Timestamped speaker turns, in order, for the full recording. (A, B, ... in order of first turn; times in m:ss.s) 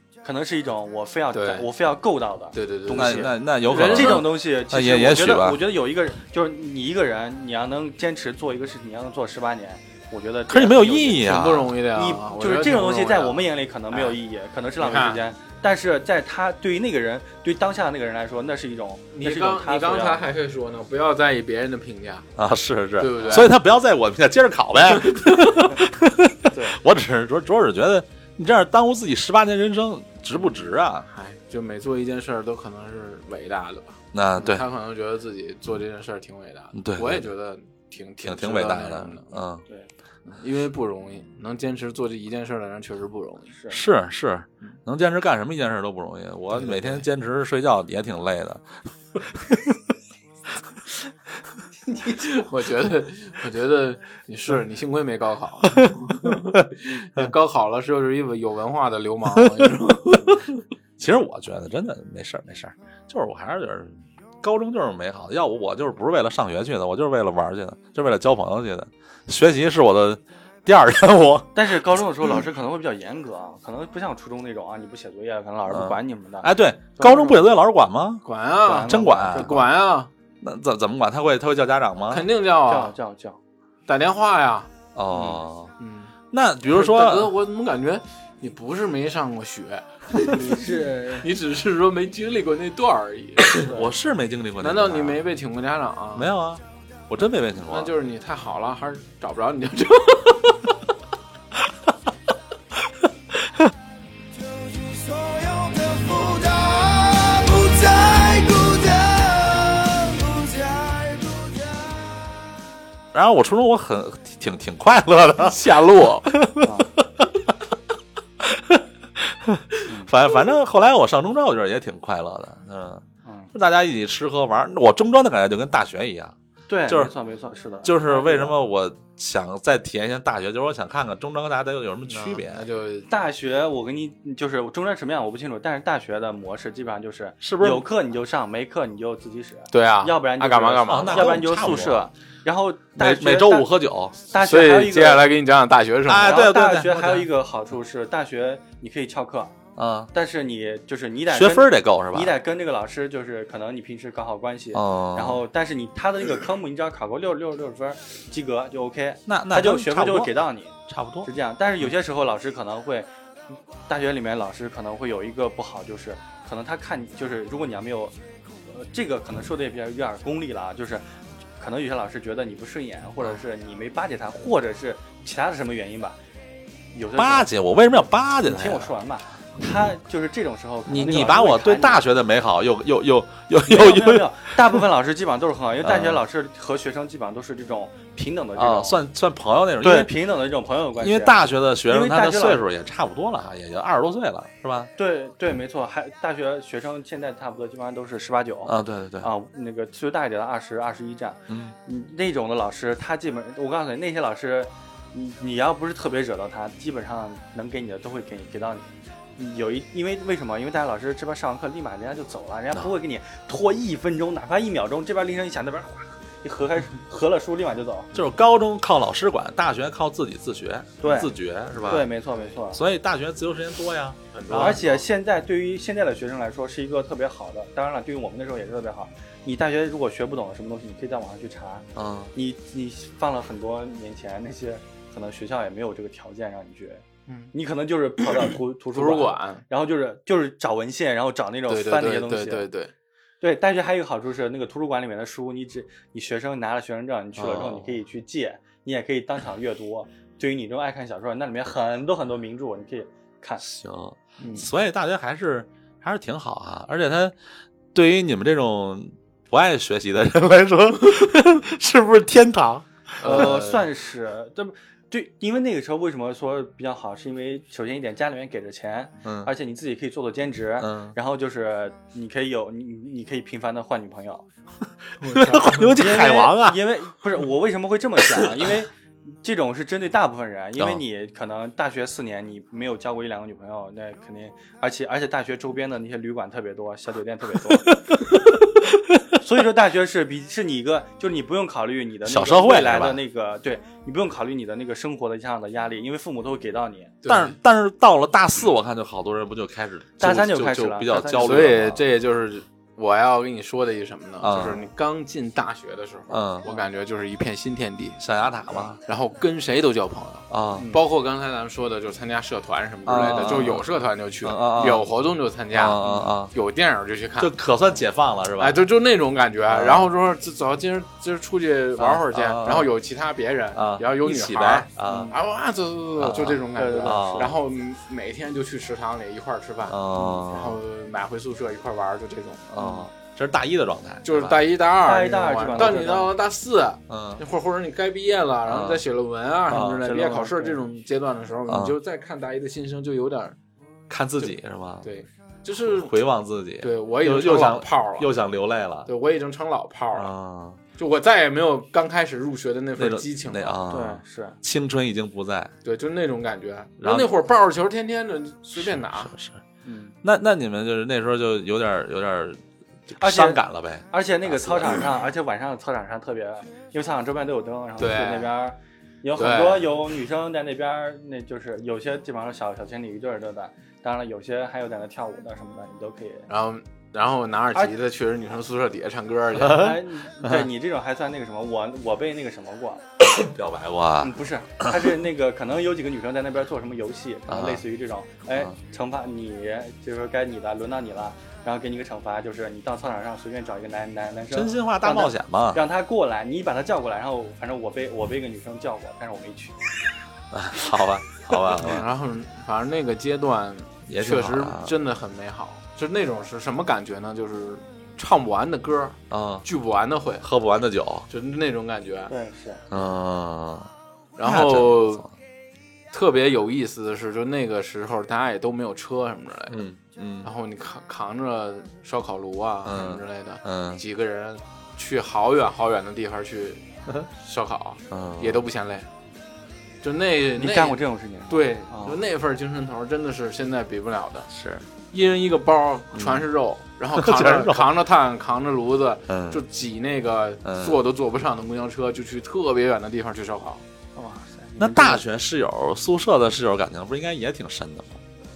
0:00.2-0:11.4 A
0:01.3-0:01.7 B
0:02.5-0:04.3 B
0:03.0-0:05.6 C
0:10.5-0:11.7 C
0:11.2-0:14.2 B
0:11.9-0:20.2 A
0:14.8-0:15.2 B
0:19.1-0:22.3 B
0:22.4-0:31.1 C
0:23.0-0:23.5 B
0:25.0-0:25.5 B
0:26.5-0:26.8 A
0:31.1-0:39.4 B
0:34.1-0:34.7 C
0:36.8-0:37.3 C
0:38.2-0:39.6 C
0:40.3-0:43.5 B
0:43.5-0:43.8 A
0:43.7-0:48.7 C
0:46.5-0:47.0 B
0:49.3-0:49.8 C
0:51.9-1:00.5 B
0:55.7-0:57.3 C
0:59.4-0:59.7 C
1:01.0-1:11.5 C
1:11.6-1:17.6 A
1:15.7-1:18.2 C
1:18.2-1:20.1 B
1:18.6-1:19.6 A
1:18.8-1:19.6 C
1:20.4-1:22.3 C
1:22.1-1:22.9 B
1:22.7-1:23.4 A
1:23.9-1:24.7 B
1:25.0-1:25.7 C
1:25.1-1:25.4 A
1:25.8-1:26.1 B
1:26.3-1:27.3 C
1:26.7-1:33.7 B
1:30.2-1:31.3 A
1:33.5-1:35.2 C
1:33.6-1:33.9 A
1:34.6-1:36.3 B
1:36.2-1:37.9 C
1:37.7-1:40.8 B
1:44.5-1:52.0 D
1:53.1-1:57.4 C
1:55.4-1:56.3 B
1:56.6-1:56.9 A
1:58.4-2:06.4 C
2:03.2-2:03.5 A
2:06.7-2:08.6 A
2:06.9-2:07.1 C
2:07.8-2:12.6 C
2:12.1-2:13.1 B
2:13.1-2:23.7 A
2:17.4-2:17.9 C
2:19.7-2:21.8 B
2:20.9-2:22.0 C
2:23.0-2:24.2 C
2:24.3-2:25.2 A
2:24.4-2:26.4 B
2:26.1-2:27.3 C
2:26.2-2:29.6 A
2:29.8-2:30.1 C
2:30.1-2:43.1 A
2:31.3-2:32.3 C
2:34.7-2:35.4 C
2:39.3-2:41.3 C
2:43.9-2:51.0 A
2:51.6-2:56.2 A
2:56.9-2:57.5 A
2:57.2-2:58.9 C
2:58.4-3:02.0 A
3:00.9-3:04.5 C
3:03.7-3:09.0 A
3:05.8-3:06.2 C
3:08.6-3:10.1 C
3:09.8-3:12.6 A
3:11.0-3:14.9 C
3:15.0-3:38.1 A
3:18.6-3:19.3 C
3:21.5-3:21.8 C
3:38.1-3:42.1 C
3:41.0-3:42.8 A
3:42.7-3:44.8 C
3:44.3-3:45.0 B
3:44.5-4:02.7 A
3:52.0-3:52.3 C
3:57.3-3:57.5 B
3:58.9-3:59.6 B
4:01.7-4:02.9 B
4:03.4-4:13.6 A
4:07.4-4:07.9 C
4:13.6-4:17.4 C
4:17.9-4:23.6 C
4:23.2-4:23.8 B
4:23.2-4:34.4 A
4:29.2-4:29.5 C
4:30.8-4:31.2 C
4:35.2-4:36.8 C
4:35.2-4:36.0 B
4:36.0-4:38.9 A
4:39.4-4:48.0 A
4:40.8-4:41.0 C
4:49.4-4:57.2 A
4:52.3-4:53.2 C
4:57.2-4:57.6 B
4:57.3-5:02.0 C
5:00.2-5:01.8 A
5:01.3-5:08.2 B
5:04.4-5:04.9 C
5:06.3-5:06.7 C
5:08.2-5:09.0 C
5:09.1-5:17.5 B
5:10.5-5:10.9 C
5:10.8-5:11.0 A
5:13.1-5:13.9 C
5:14.4-5:15.1 C
5:15.7-5:16.5 C
5:17.4-5:18.9 C
5:18.6-5:32.7 B
5:19.7-5:20.1 C
5:22.0-5:22.9 C
5:23.7-5:25.3 C
5:25.1-5:25.4 A
5:26.2-5:27.6 C
5:26.8-5:27.5 A
5:29.9-5:30.8 C
5:32.7-5:34.6 C
5:32.8-5:33.0 A
5:34.2-5:43.6 B
5:35.0-5:36.3 A
5:37.1-5:37.4 C
5:38.7-5:39.0 C
5:39.7-5:40.0 C
5:40.0-5:40.8 A
5:41.7-5:42.0 C
5:44.1-5:45.1 C
5:44.4-5:46.2 B
5:45.8-5:49.1 C
5:46.8-5:48.3 B
5:49.1-5:50.3 B
5:50.1-5:50.8 C
5:51.0-5:53.8 B
5:53.0-5:55.7 C
5:53.9-5:54.6 A
5:55.8-5:59.3 B
5:57.0-5:57.3 C
5:58.7-5:59.6 C
5:59.8-6:00.2 A
6:00.2-6:05.1 C
6:03.2-6:16.5 A
6:08.0-6:08.5 B
6:09.4-6:10.1 B
6:16.5-6:19.9 B
6:19.6-6:20.6 C
6:19.6-6:23.1 A
6:23.4-6:25.0 C
6:24.2-6:39.8 A
6:27.5-6:27.8 C
6:34.5-6:35.8 C
6:40.5-6:42.1 C
6:41.8-6:50.5 B
6:44.1-6:45.0 C
6:49.3-6:49.7 C
6:50.4-6:51.3 C
6:51.3-6:52.3 B
6:52.3-6:52.8 A
6:52.9-6:53.9 C
6:54.4-6:55.2 B
6:54.4-6:55.3 C
6:56.1-6:59.9 B
6:59.7-7:00.5 C
7:00.4-7:09.1 B
7:02.8-7:04.0 C
7:08.1-7:08.7 C
7:10.0-7:14.5 B
7:10.6-7:12.2 A
7:14.5-7:14.9 C
7:15.1-7:23.8 B
7:16.1-7:16.5 C
7:17.1-7:17.9 C
7:19.3-7:19.6 C
7:20.6-7:21.0 C
7:24.2-7:25.2 A
7:24.8-7:28.2 C